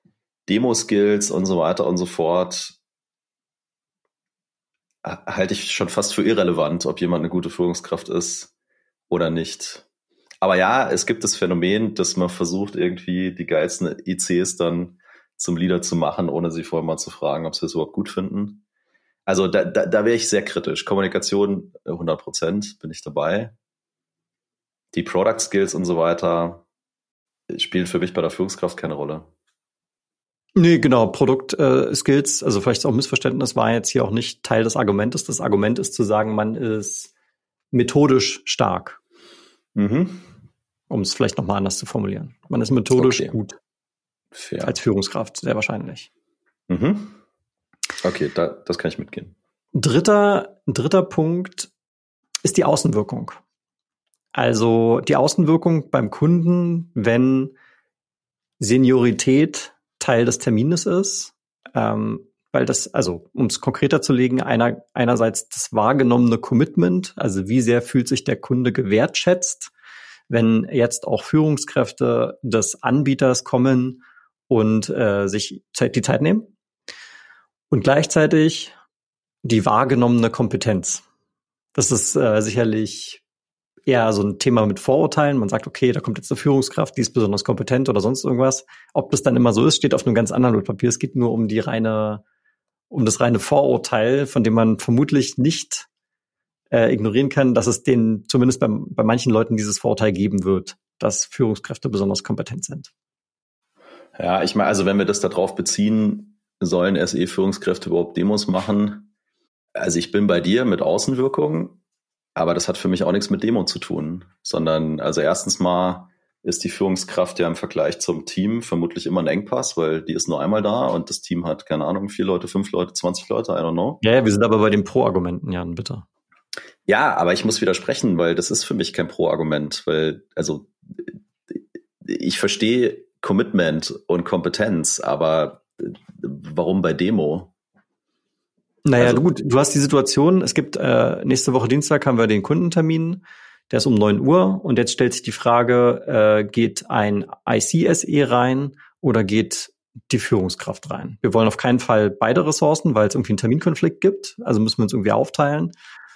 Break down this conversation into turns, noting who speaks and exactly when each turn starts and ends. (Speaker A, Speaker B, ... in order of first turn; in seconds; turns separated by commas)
Speaker A: 0.5-2.8, Speaker A: 5.0-8.5, Speaker A: 9.1-9.8, Speaker A: 10.4-18.6, Speaker A: 19.3-23.5, Speaker A: 24.9-26.6, Speaker A: 27.5-29.3, Speaker B: 30.6-37.1, Speaker B: 37.7-39.0, Speaker A: 39.8-40.2, Speaker B: 40.9-43.6, Speaker A: 42.9-43.4, Speaker A: 44.4-44.8, Speaker B: 44.6-46.1, Speaker A: 46.7-47.2, Speaker A: 48.0-49.3, Speaker B: 49.7-51.7, Speaker B: 52.4-53.4, Speaker B: 54.3-57.5, Speaker B: 58.6-69.7, Speaker B: 70.3-76.5, Speaker B: 77.7-78.7, Speaker B: 79.4-81.0, Speaker B: 81.8-83.2, Speaker B: 83.9-92.2, Speaker B: 92.9-95.9, Speaker B: 96.7-102.9, Speaker A: 104.2-109.1, Speaker A: 109.8-111.8, Speaker A: 112.3-124.0, Speaker B: 124.0-126.0, Speaker A: 126.9-137.5, Speaker B: 138.8-155.7, Speaker A: 139.0-139.2